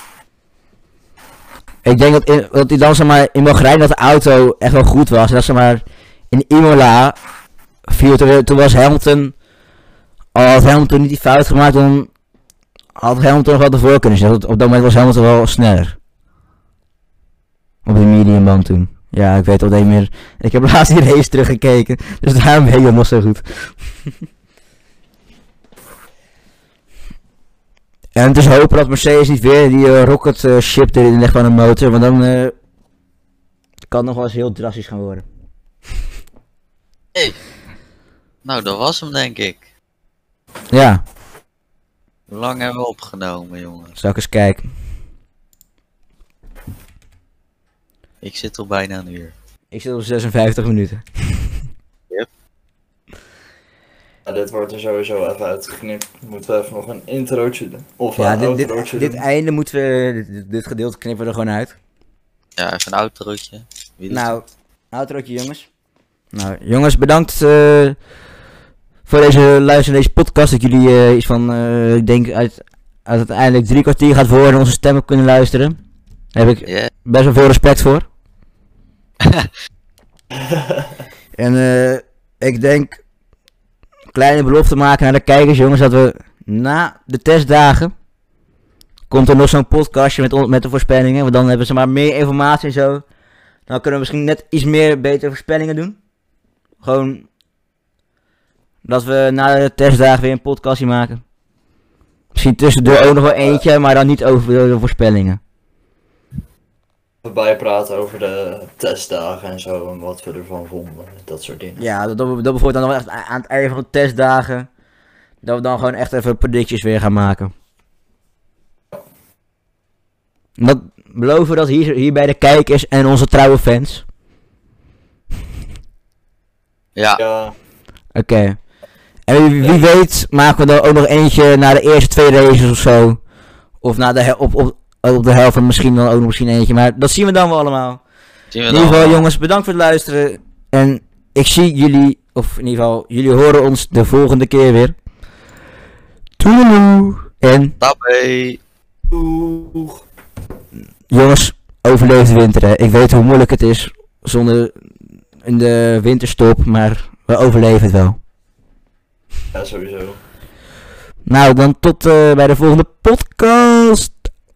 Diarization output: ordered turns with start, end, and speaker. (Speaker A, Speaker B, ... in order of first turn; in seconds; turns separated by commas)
Speaker A: 1.8-7.2, Speaker A: 7.9-9.3, Speaker A: 10.3-12.1, Speaker A: 13.0-16.0, Speaker A: 17.9-23.9, Speaker A: 28.1-32.5, Speaker A: 33.9-35.2, Speaker B: 38.4-39.6, Speaker A: 40.7-41.0, Speaker B: 42.3-44.0, Speaker A: 44.0-44.7, Speaker B: 48.2-49.3, Speaker A: 49.7-51.6, Speaker C: 54.3-59.2, Speaker A: 58.2-61.8, Speaker B: 62.6-64.4, Speaker A: 64.1-65.7, Speaker A: 66.3-68.0, Speaker A: 69.1-75.8, Speaker A: 76.3-78.1, Speaker B: 76.7-76.9, Speaker B: 79.2-79.5, Speaker A: 81.4-83.0, Speaker A: 84.1-87.9, Speaker A: 89.1-93.0, Speaker A: 93.7-96.0, Speaker A: 96.8-97.3, Speaker A: 98.8-101.2, Speaker A: 102.3-105.4, Speaker C: 102.8-103.6, Speaker C: 107.2-111.9, Speaker A: 111.8-114.7, Speaker A: 115.4-117.5, Speaker A: 120.6-124.0, Speaker B: 127.0-127.2, Speaker C: 127.2-127.6, Speaker A: 128.2-128.6, Speaker A: 129.3-133.2, Speaker A: 133.8-138.0, Speaker B: 138.5-139.3, Speaker A: 138.7-145.0, Speaker A: 146.4-147.8, Speaker B: 147.8-148.6, Speaker C: 149.1-150.0, Speaker A: 151.1-154.8, Speaker A: 155.4-158.2, Speaker C: 159.5-160.2, Speaker A: 161.3-164.2